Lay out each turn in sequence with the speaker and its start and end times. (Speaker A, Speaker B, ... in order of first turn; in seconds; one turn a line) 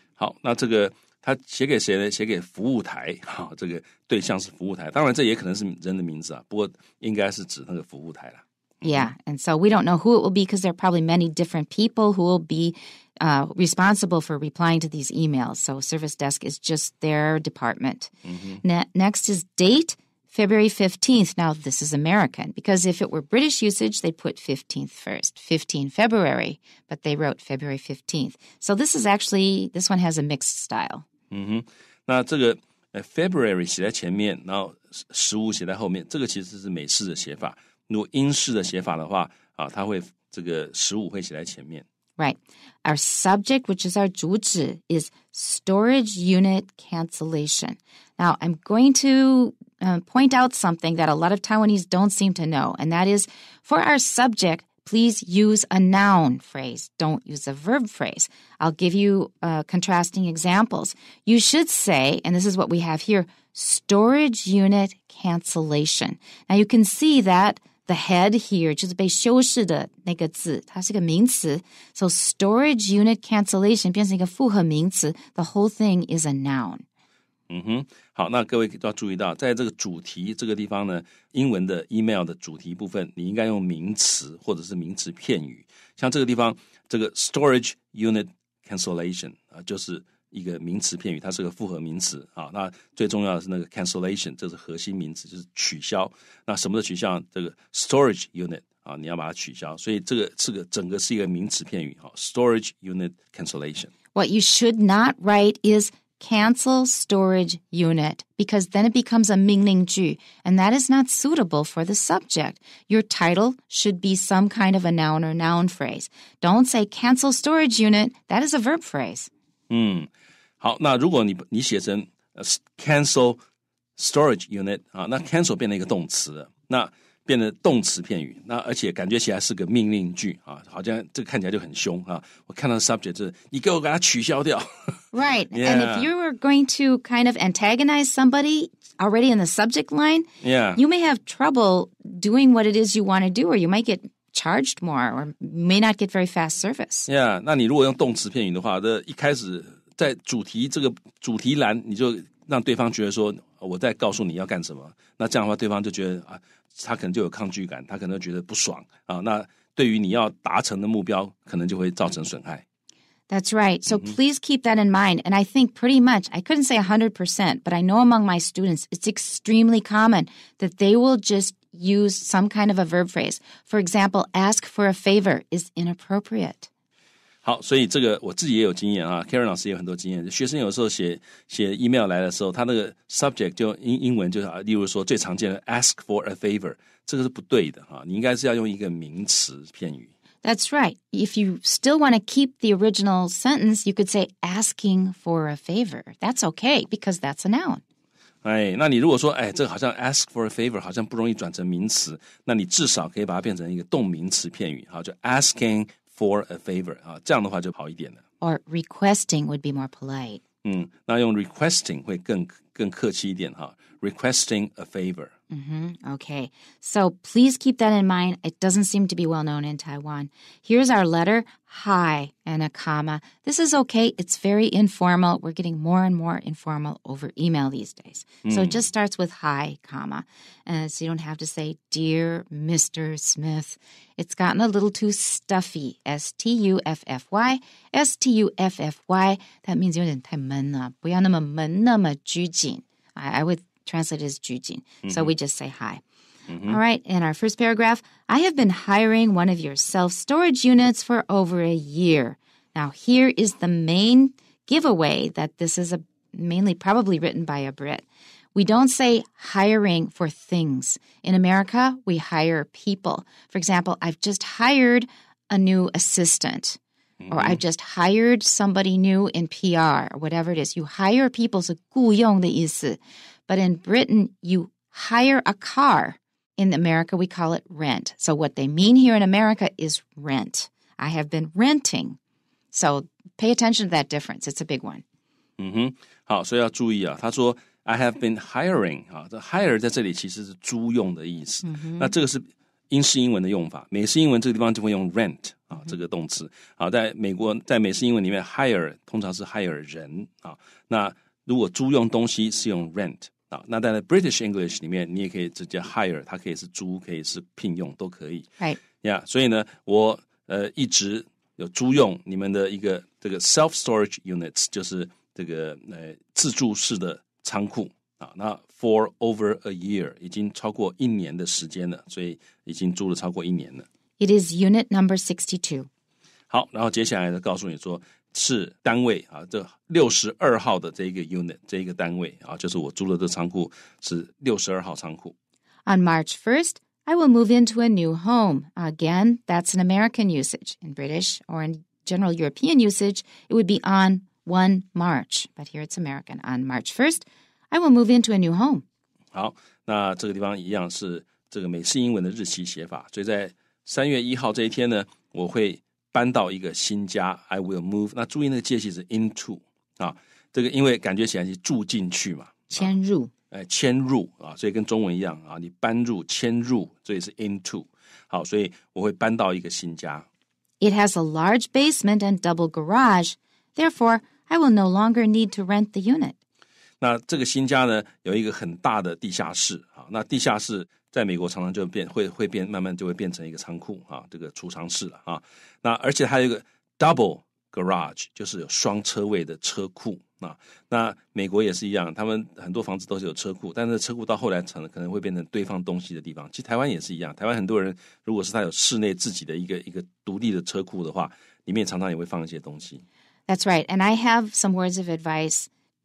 Speaker A: 0.2-9.1
Speaker B: 8.8-18.1
Speaker A: 18.2-18.6
Speaker B: 18.6-31.1
Speaker A: 31.3-41.8
Speaker B: 42.2-76.8
Speaker A: 77.5-103.9
Speaker B: 104.1-119.3
Speaker A: 119.7-120.1
Speaker A: 120.6-123.4
Speaker A: 124.0-134.9
Speaker B: 135.1-147.1
Speaker A: 135.5-136.1
Speaker A: 140.4-140.8
Speaker A: 147.1-162.6
Speaker B: 163.3-176.7
Speaker A: 163.9-164.2
Speaker A: 177.4-190.1
Speaker B: 190.4-197.8
Speaker A: 198.4-208.2
Speaker B: 208.4-210.4
Speaker A: 210.6-215.3
Speaker B: 215.5-246.0
Speaker A: 228.4-228.8
Speaker A: 245.0-245.3
Speaker A: 246.5-246.8
Speaker B: 246.6-266.8
Speaker A: 267.2-267.6
Speaker B: 267.3-282.2
Speaker B: 282.7-285.0
Speaker A: 285.6-323.9
Speaker B: 291.6-292.1
Speaker B: 324.2-325.9
Speaker A: 326.5-335.3
Speaker B: 335.9-348.8
Speaker A: 349.3-362.9
Speaker B: 362.7-363.3
Speaker A: 363.5-370.3
Speaker B: 370.8-376.4
Speaker A: 377.0-403.0
Speaker B: 403.5-405.7